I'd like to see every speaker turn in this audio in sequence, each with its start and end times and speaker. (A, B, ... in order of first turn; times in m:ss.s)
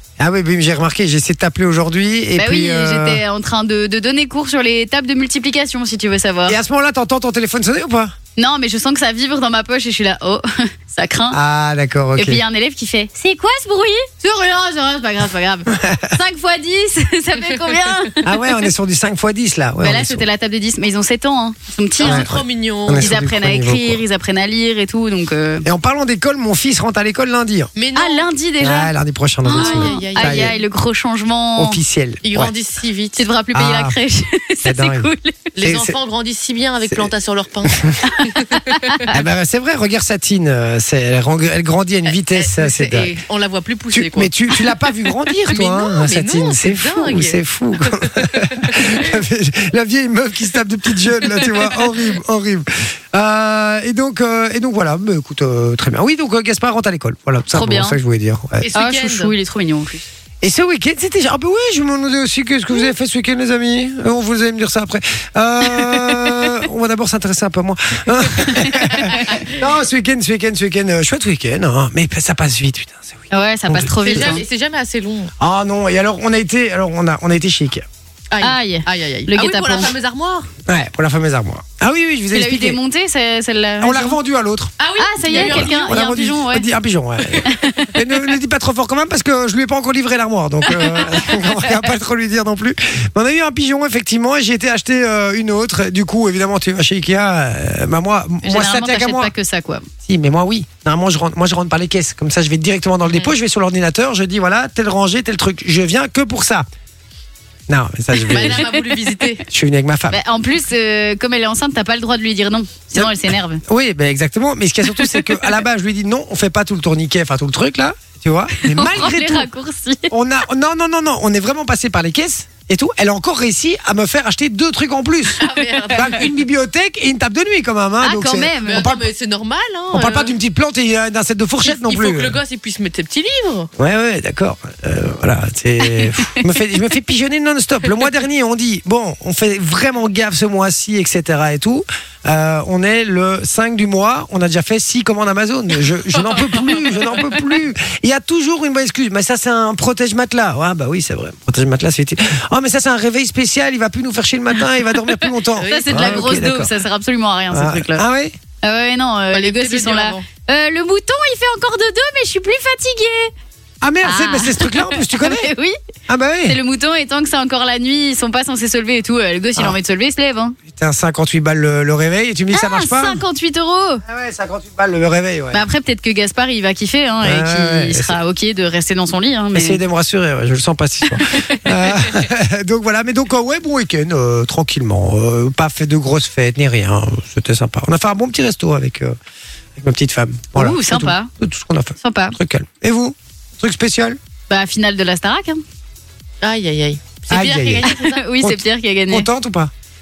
0:00.2-0:03.2 A
0:02.4-0:06.6 B
0:06.5-0:08.1 A
0:08.4-0:11.4 B
0:11.3-0:12.4 A
0:12.2-0:18.3 B
0:15.7-0:16.1 A
0:18.2-0:20.2 A
0:19.8-0:22.2 B
0:22.0-0:23.1 C
0:22.0-0:24.0 A
0:23.0-0:25.6 B
0:25.6-0:27.7 A
0:27.8-0:28.3 C
0:27.9-0:28.9 B
0:28.6-0:30.5 A
0:29.4-0:31.8 B
0:29.5-0:30.6 C
0:31.6-0:32.5 A
0:32.2-0:33.2 C
0:33.2-0:35.4 B
0:33.5-0:34.0 A
0:34.6-0:35.1 A
0:35.6-0:38.9 C
0:35.6-0:36.0 A
0:37.7-0:38.0 A
0:38.1-0:39.1 B
0:39.1-0:43.2 A
0:42.1-0:44.7 C
0:43.9-0:58.7 A
0:45.4-0:47.4 C
0:47.9-0:48.9 C
0:51.3-0:52.0 C
0:57.5-0:58.0 B
0:58.6-0:59.3 C
0:58.7-1:00.0 B
1:00.4-1:14.4 A
1:05.7-1:06.4 B
1:08.4-1:09.3 B
1:08.9-1:09.6 C
1:13.3-1:14.4 B
1:14.0-1:15.3 C
1:15.4-1:17.8 A
1:18.3-1:20.5 C
1:18.4-1:19.9 B
1:20.7-1:22.8 A
1:22.3-1:24.2 B
1:23.8-1:24.7 A
1:24.8-1:25.9 C
1:25.0-1:26.6 B
1:25.3-1:39.3 A
1:27.4-1:28.0 B
1:30.7-1:31.5 B
1:38.4-1:39.8 B
1:40.0-1:46.6 A
1:47.7-1:48.7 A
1:48.3-1:49.4 C
1:49.5-1:50.2 A
1:50.1-1:53.6 B
1:52.9-1:59.5 A
1:54.9-1:55.5 B
1:58.6-2:00.1 B
2:00.1-2:05.4 A
2:05.4-2:06.3 C
2:05.5-2:06.1 B
2:05.9-2:09.1 A
2:08.0-2:08.9 B
2:08.6-2:10.4 C
2:09.9-2:12.4 A
2:11.6-2:13.7 C
2:13.8-2:36.7 A
2:16.0-2:16.3 B
2:26.2-2:27.3 C
2:35.5-2:36.3 C
2:35.7-2:38.0 B
2:37.5-2:38.3 A
2:38.6-2:43.3 B
2:39.3-2:40.2 C
2:43.8-2:45.5 A
2:44.0-2:45.8 B
2:46.1-2:46.6 A
2:46.4-2:50.6 B
2:50.7-2:53.2 A
2:52.5-2:54.0 B
2:54.0-2:55.6 A
2:55.5-2:59.8 B
2:57.2-2:58.2 A
2:59.5-3:09.2 A
3:01.1-3:01.6 B
3:09.8-3:14.2 A
3:10.5-3:11.3 B
3:12.0-3:12.4 B
3:14.5-3:15.6 B
3:16.4-3:18.2 C
3:17.3-3:17.9 A
3:17.8-3:19.3 B
3:18.4-3:19.7 A